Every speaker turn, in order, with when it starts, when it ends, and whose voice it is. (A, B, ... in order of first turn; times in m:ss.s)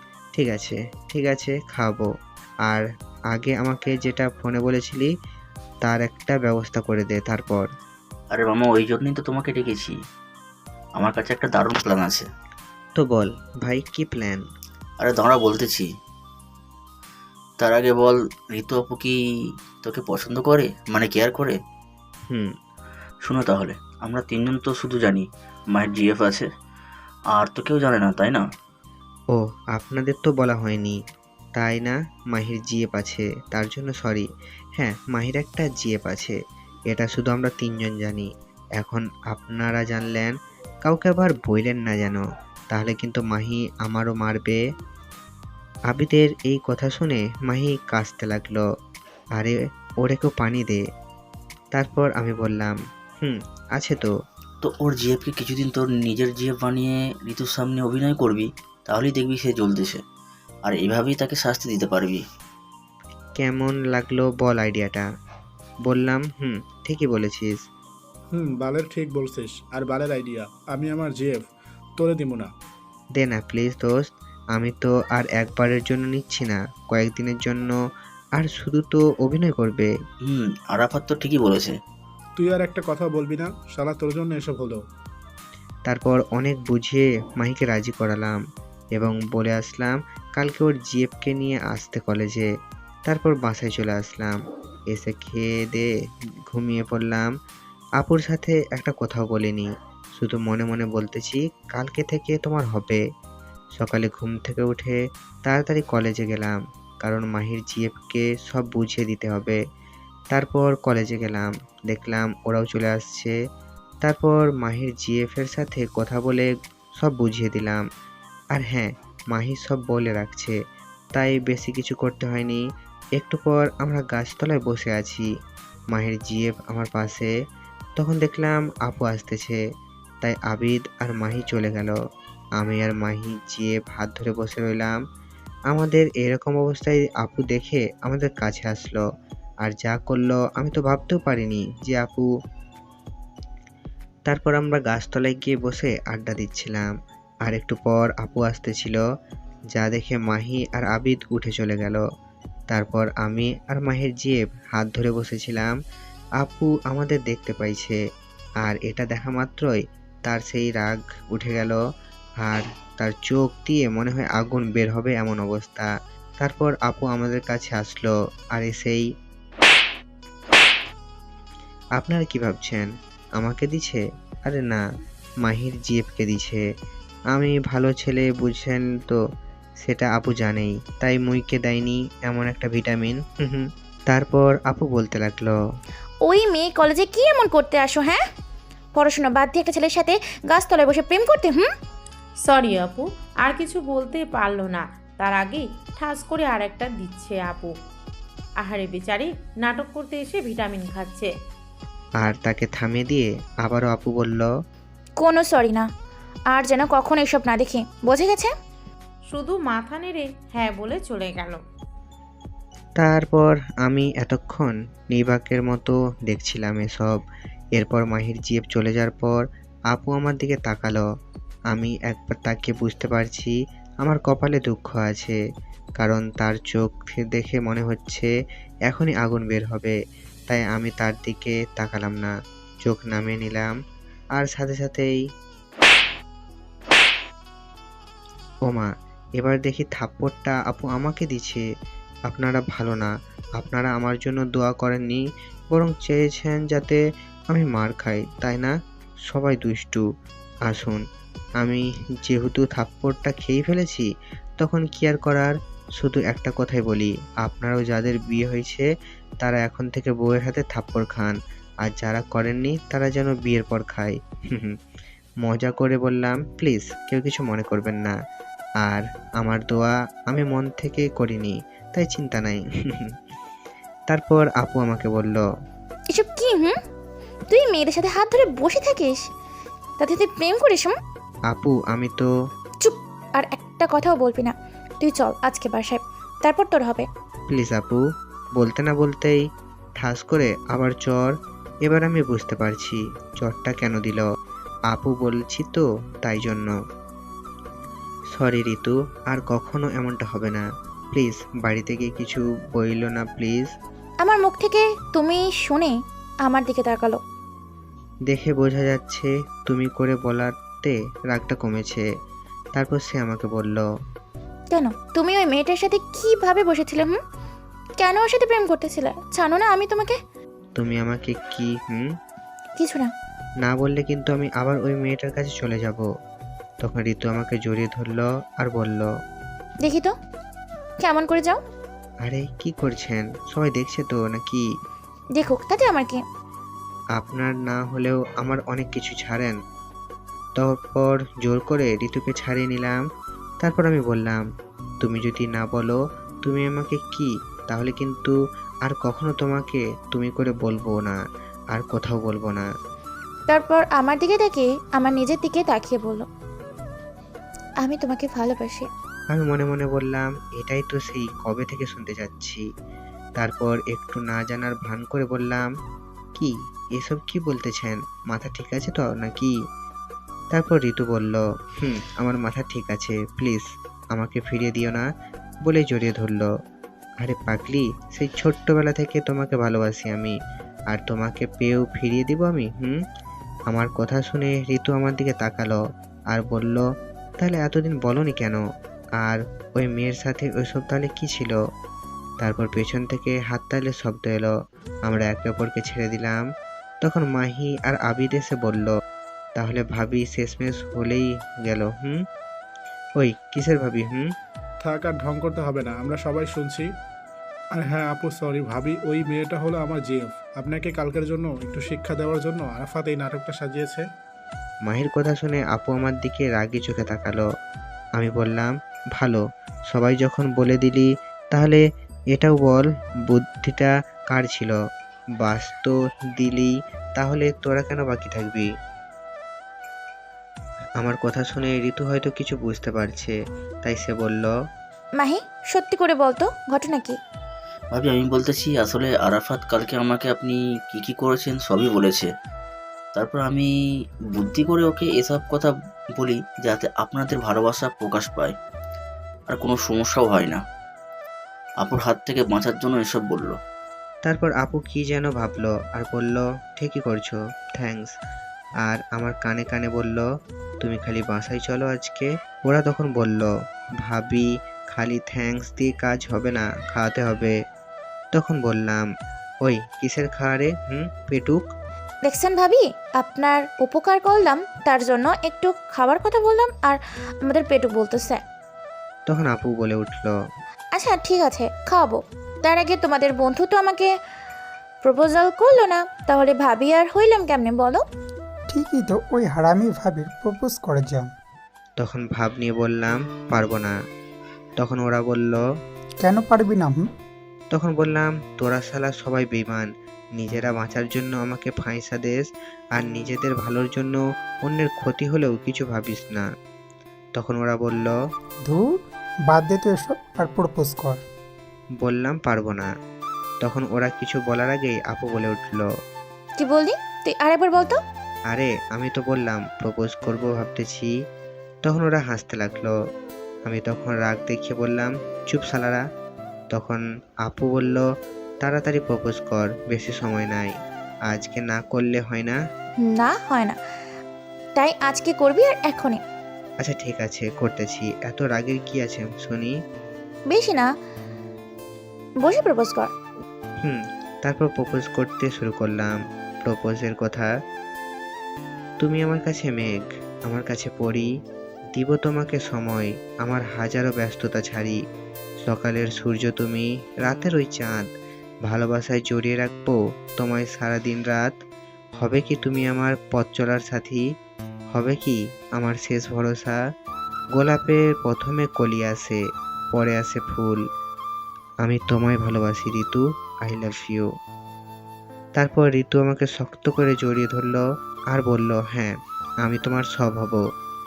0:00.4-0:02.1 A
0:02.7-0:05.1 A
0:05.8-0:07.7 A
0:08.3-0:10.0 B
0:11.0-0:12.2 B
0:13.0-0:14.4 A
0:15.0-0:15.9 B
0:17.6-0:19.2 B
0:19.8-0:21.6 B
0:22.3-0:22.5 A
0:23.2-0:26.5 B
0:27.3-0:28.4 B
0:29.3-0:31.0 A
0:31.6-0:36.4 A
0:36.9-0:40.3 A
0:40.8-0:44.6 A
0:45.9-0:48.7 A
0:49.4-0:50.8 A
0:51.7-0:54.1 A
0:54.6-1:00.0 B
1:00.7-1:02.2 B
1:03.4-1:05.1 A
1:05.9-1:07.6 A
1:08.3-1:11.5 C
1:12.0-1:12.5 C
1:13.2-1:17.8 A
1:18.4-1:19.9 A
1:20.2-1:21.7 B
1:22.4-1:24.8 C
1:25.9-1:28.4 A
1:29.0-1:32.5 A
1:33.1-1:34.4 A
1:34.9-1:35.9 A
1:36.5-1:37.3 A
1:38.0-1:43.0 A
1:43.8-1:49.6 A
1:50.3-1:53.4 A
1:54.0-1:57.8 A
1:58.5-2:00.6 A
2:01.2-2:02.6 A
2:03.2-2:05.3 A
2:05.9-2:07.3 A
2:08.0-2:09.6 A
2:10.2-2:12.0 A
2:12.6-2:15.0 A
2:15.7-2:19.0 A
2:19.6-2:22.3 A
2:24.3-2:26.9 A
2:27.4-2:29.0 A
2:29.7-2:32.0 A
2:32.7-2:35.8 A
2:36.4-2:38.0 A
2:38.6-2:41.8 A
2:42.4-2:49.0 A
2:52.0-2:54.8 A
2:55.4-2:56.6 A
2:57.3-2:59.2 A
2:59.8-3:05.6 A
3:06.2-3:08.2 D
3:09.0-3:11.7 D
3:12.5-3:17.7 E
3:18.6-3:21.2 E
3:22.2-3:24.5 A
3:25.2-3:25.9 D
3:26.5-3:28.5 D
3:29.4-3:31.5 E
3:33.0-3:37.2 A
3:37.8-3:41.0 A
3:41.7-3:45.4 A
3:46.0-3:48.3 A
3:48.9-3:50.0 A
3:50.5-3:52.3 A
3:52.8-3:53.7 A
3:54.4-3:55.2 A
3:58.7-4:01.6 A
4:02.3-4:08.7 A
4:09.3-4:10.0 A
4:10.7-4:11.0 A
4:11.6-4:18.9 A
4:19.4-4:24.8 A
4:25.4-4:28.2 A
4:28.8-4:33.1 A
4:34.1-4:35.4 A
4:36.1-4:36.8 D
4:37.5-4:39.3 D
4:40.0-4:40.9 D
4:41.5-4:42.3 A
4:42.8-4:47.1 D
4:47.5-4:48.0 A
4:48.6-4:49.4 A
4:50.0-4:54.2 A
4:54.9-4:56.7 A
4:58.4-5:03.7 A
5:04.2-5:07.2 D
5:08.3-5:12.1 A
5:12.8-5:13.9 A
5:14.7-5:17.2 D
5:18.0-5:20.2 D
5:20.8-5:22.1 A
5:22.8-5:23.1 D
5:23.6-5:26.1 A
5:26.8-5:29.1 A
5:29.8-5:30.1 D
5:31.0-5:31.6 D
5:32.2-5:34.7 A
5:35.4-5:36.2 D
5:37.2-5:39.6 A
5:40.6-5:43.0 A
5:43.6-5:44.4 A
5:45.0-5:51.2 A
5:51.7-5:52.7 A
5:53.5-5:56.3 D
5:57.8-5:58.9 D
5:59.3-6:02.6 A
6:03.4-6:05.7 A
6:06.4-6:09.6 A
6:10.5-6:15.1 A
6:15.6-6:16.5 A
6:17.2-6:20.4 A
6:20.9-6:23.0 A
6:23.7-6:26.9 A
6:27.4-6:28.6 A
6:29.2-6:31.6 A
6:32.4-6:34.6 A
6:35.1-6:36.4 A
6:37.0-6:39.0 A
6:39.6-6:42.2 A
6:43.2-6:44.3 A
6:44.8-6:46.9 C
6:47.8-6:54.0 C
6:54.9-6:57.5 A
6:58.2-7:01.8 A
7:02.3-7:04.8 A
7:05.4-7:08.7 A
7:11.0-7:14.5 A
7:15.2-7:17.2 D
7:17.9-7:22.3 B
7:23.2-7:23.7 B
7:24.3-7:28.5 B
7:29.5-7:30.6 B
7:31.8-7:33.6 B
7:34.2-7:38.1 A
7:38.8-7:40.3 A
7:40.8-7:43.5 A
7:44.0-7:47.5 A
7:48.3-7:49.1 A
7:49.6-7:51.6 A
7:52.2-7:58.4 D
7:59.3-8:00.3 A
8:01.0-8:04.1 D
8:05.0-8:08.0 D
8:08.7-8:11.3 F
8:12.0-8:14.0 A
8:14.8-8:15.6 A
8:16.2-8:17.0 F
8:17.7-8:26.5 A
8:27.4-8:28.2 A
8:29.5-8:31.2 F
8:32.0-8:32.9 A
8:33.6-8:35.9 A
8:36.6-8:38.0 D
8:38.5-8:41.1 A
8:41.8-8:43.0 A
8:43.7-8:46.0 A
8:46.7-8:48.1 A
8:48.6-8:50.7 A
8:51.3-8:52.6 A
8:53.0-8:53.8 D
8:54.8-8:56.2 D
8:56.8-8:59.8 A
9:00.5-9:00.9 D
9:02.4-9:03.1 D
9:03.8-9:07.5 A
9:09.0-9:11.3 A
9:11.9-9:15.0 A
9:15.6-9:18.1 A
9:18.6-9:21.6 A
9:22.2-9:24.2 A
9:25.0-9:26.8 A
9:27.6-9:29.4 A
9:29.9-9:30.8 A
9:31.8-9:34.3 A
9:35.6-9:40.6 A